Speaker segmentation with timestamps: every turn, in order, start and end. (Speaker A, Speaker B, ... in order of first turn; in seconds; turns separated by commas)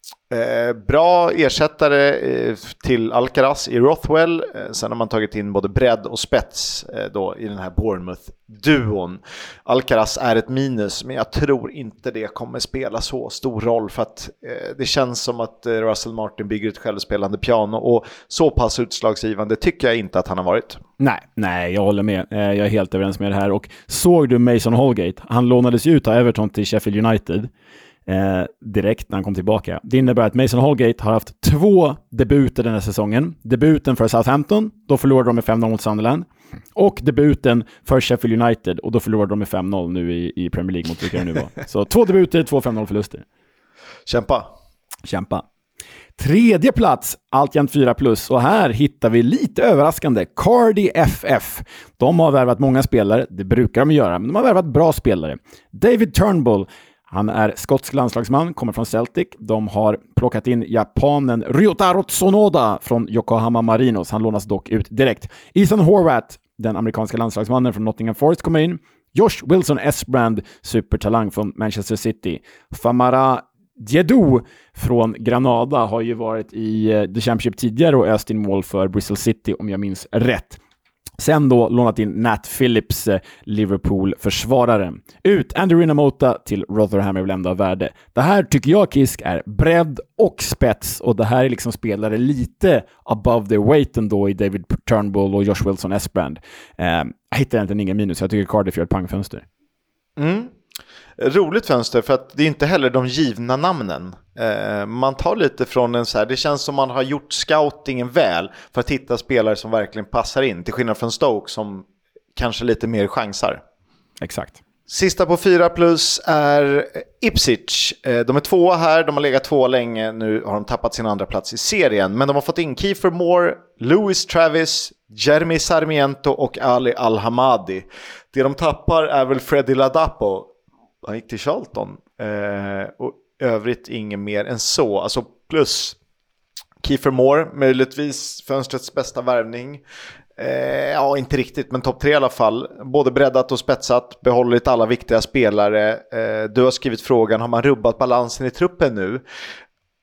Speaker A: 0.3-20.8, Speaker B: 21.0-27.5, Speaker B: 28.1-43.2, Speaker A: 44.1-44.5, Speaker B: 45.0-45.4, Speaker B: 46.2-80.6, Speaker B: 81.2-99.4, Speaker A: 100.2-100.5, Speaker A: 101.2-113.6, Speaker B: 114.2-114.6, Speaker A: 114.9-130.5, Speaker A: 131.0-136.0, Speaker A: 136.8-139.8, Speaker A: 140.4-149.2